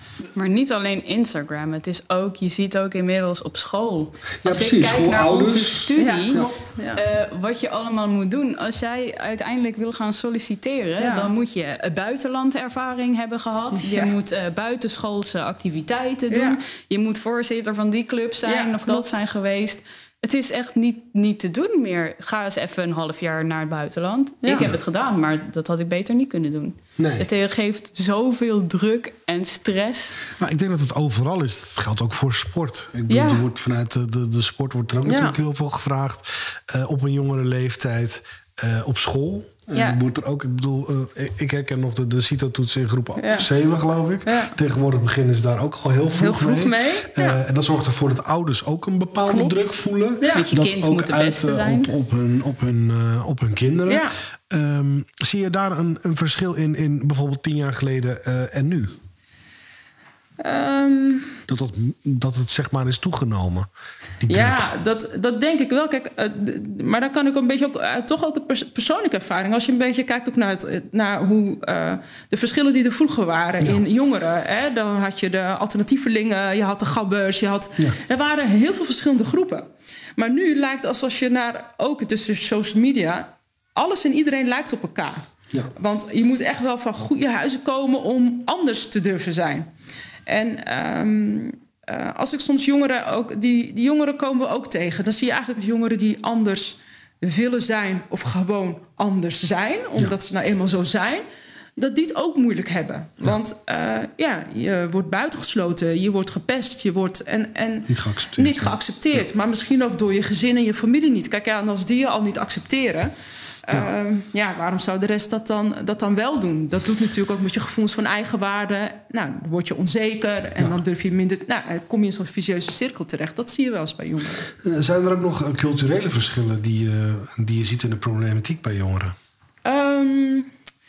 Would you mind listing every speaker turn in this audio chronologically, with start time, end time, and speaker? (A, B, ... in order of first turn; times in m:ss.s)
0:00.3-0:30.2 A
0:04.4-0:05.9 B
0:06.0-0:07.0 C
0:11.0-0:11.3 C
0:13.7-0:14.1 C
0:16.3-0:16.6 C
0:18.4-0:19.2 C
0:24.4-0:24.7 C
0:27.0-0:27.3 B
0:30.4-0:59.0 B
0:33.1-0:33.4 A
0:35.0-0:35.4 C
0:43.2-0:43.5 C
0:44.2-0:44.5 C
0:46.1-0:47.4 C
0:49.2-0:50.4 C
0:50.3-0:51.9 A
0:53.9-0:54.1 C
1:00.4-1:01.4 C
1:01.5-1:03.7 B
1:04.2-1:04.7 B
1:04.3-1:29.7 C
1:30.2-1:41.2 C
1:41.8-1:53.1 C
1:47.9-1:49.2 B
1:53.6-2:04.5 C
1:53.7-1:53.9 B
2:00.6-2:00.8 B
2:04.6-2:09.1 B
2:09.6-2:10.5 C